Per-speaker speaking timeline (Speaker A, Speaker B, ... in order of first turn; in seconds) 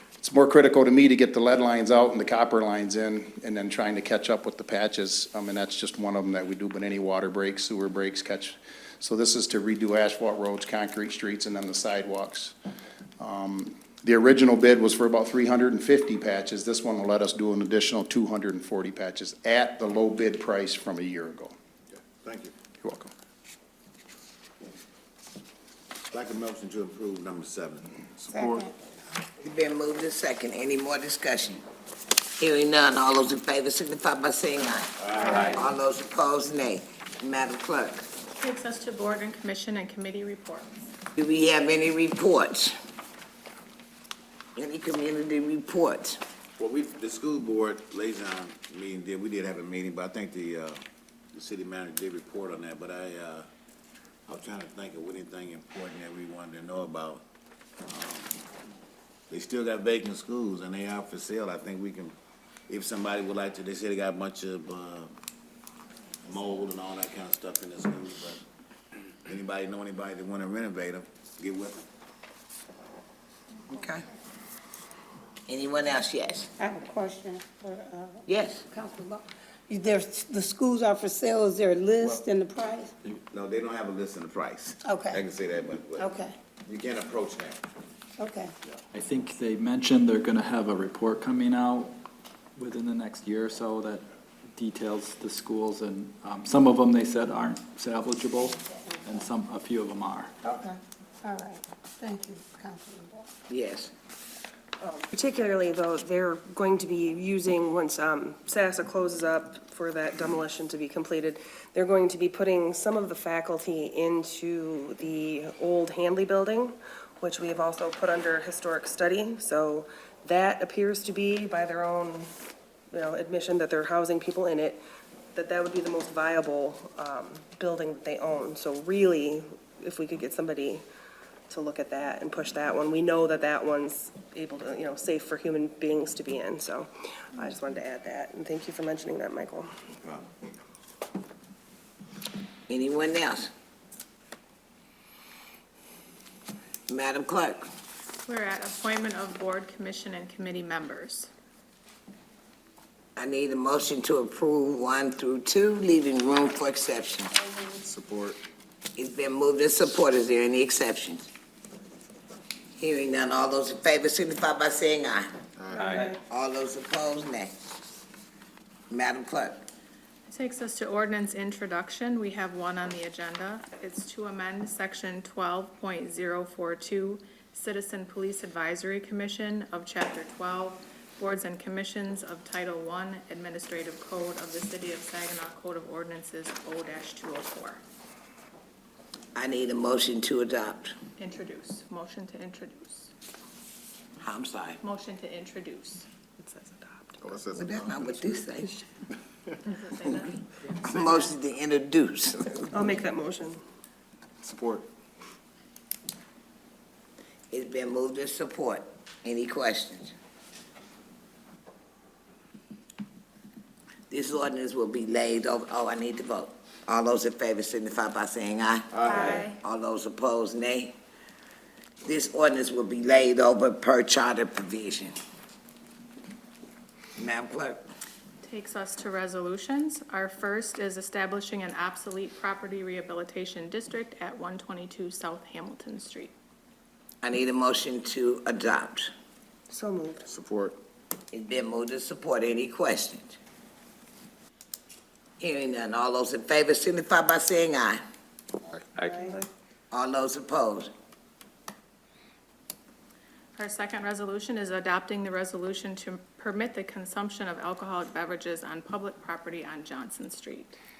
Speaker A: 0.2-12.5, 13.2-21.5, 22.8-23.1
Speaker B: 22.0-22.5, 26.1-28.6, 35.0-35.5, 46.6-50.8, 51.3-53.5, 54.3-57.2, 57.9-58.4, 59.3-62.1, 62.7-65.1, 66.2-68.4, 69.2-71.8, 83.3-86.1, 86.7-87.6, 140.0-140.3, 157.8-158.4, 165.6-166.0, 197.2-198.3, 204.4-204.8, 218.9-219.4, 240.3-240.8
Speaker C: 28.3-28.7, 76.6-82.9, 84.8-85.2, 86.0-86.3, 88.2-88.5, 98.7-99.2, 100.4-103.3
Speaker D: 29.4-31.6, 32.4-38.1, 41.1-42.7, 44.5-46.2, 73.7-74.0, 75.5-76.5, 78.3-78.7, 103.5-103.9, 142.7-143.5, 146.9-147.6, 153.2-157.3, 158.9-161.3, 162.8-165.3, 166.1-167.5, 168.9-169.7, 189.3-190.9, 194.2-194.8, 197.5-198.8, 200.8-202.7, 207.5-210.1, 214.1-220.9, 222.0-225.1, 227.2-227.8, 237.2-239.1, 241.3-243.4, 245.4-248.0, 249.9-250.9
Speaker E: 38.4-40.9, 148.2-151.3, 170.3-187.8, 191.2-193.1, 194.8-196.1, 199.6-201.3, 228.4-236.3, 253.6-260.8
Speaker F: 88.9-92.0, 92.6-100.3
Speaker G: 104.8-122.3, 122.9-124.8, 125.3-130.8, 131.5-139.7, 165.8-166.1, 196.4-197.3, 202.7-203.6, 239.7-240.2, 248.9-249.4